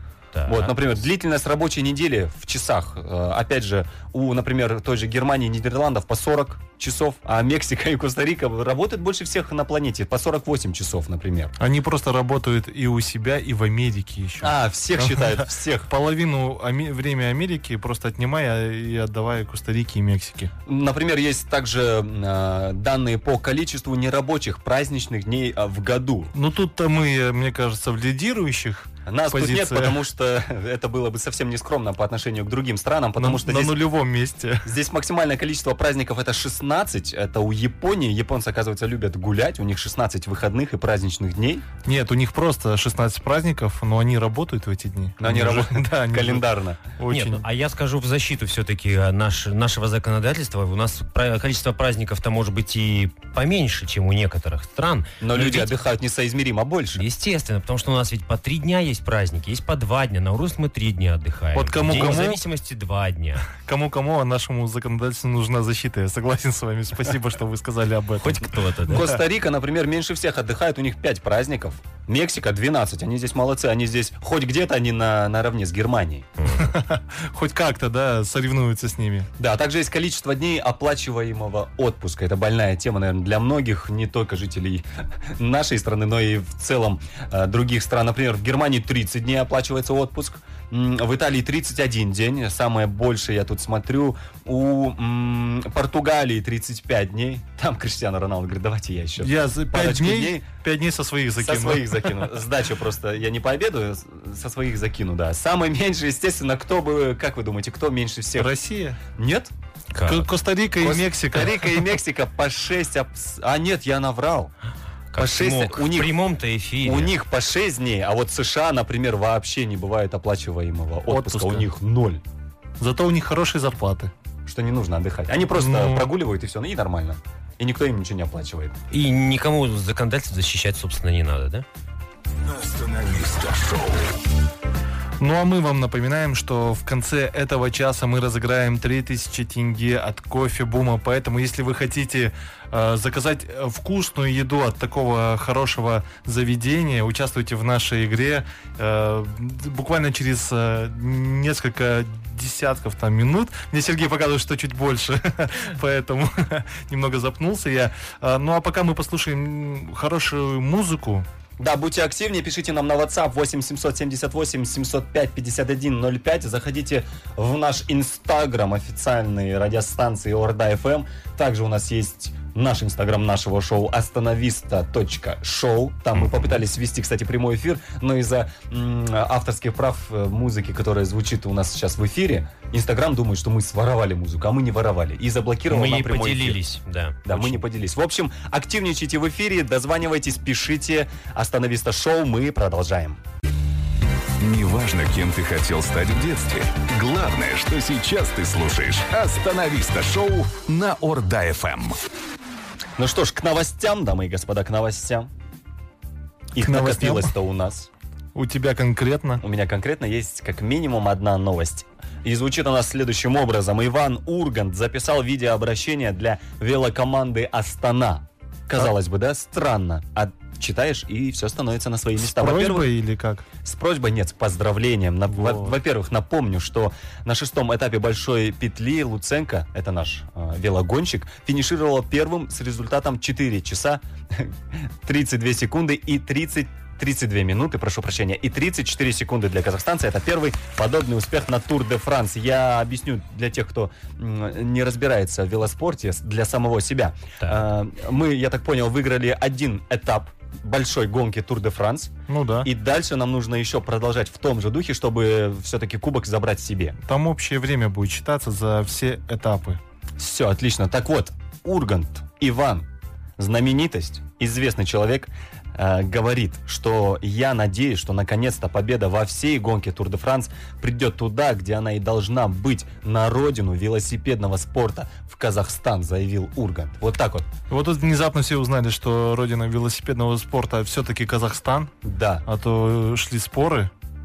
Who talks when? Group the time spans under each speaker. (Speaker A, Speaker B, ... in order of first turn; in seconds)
Speaker A: 0.3-0.8, 47.1-55.7, 57.0-63.5, 68.2-69.1, 76.4-76.6, 109.9-110.3, 115.1-117.1, 128.9-131.7, 185.7-187.6
Speaker B: 0.5-11.6, 14.4-15.9, 20.7-26.3, 29.1-33.8, 34.6-41.6, 45.2-46.8, 55.2-57.0, 68.9-76.3, 79.4-100.5, 101.4-108.5, 109.2-109.5, 110.8-114.5, 115.2-116.2, 116.8-122.2, 124.5-128.8, 161.6-186.6, 187.2-193.2, 203.0-205.3, 206.5-207.9, 209.4-222.9, 223.6-252.1, 252.6-257.0, 260.2-262.9, 263.4-277.5, 282.0-282.4
Speaker C: 11.6-20.5, 26.3-30.0, 33.2-34.7, 41.9-47.5, 61.5-62.4, 63.6-69.1, 76.5-79.3, 99.2-102.2, 108.4-109.0, 110.0-111.9, 121.1-121.7, 122.8-124.1, 125.5-126.1, 135.2-161.3, 206.6-207.3, 208.3-209.4, 222.2-223.5, 225.3-225.8, 252.3-252.7, 257.1-259.8, 277.7-281.9, 282.5-283.9
Speaker D: 132.4-134.2, 194.4-202.0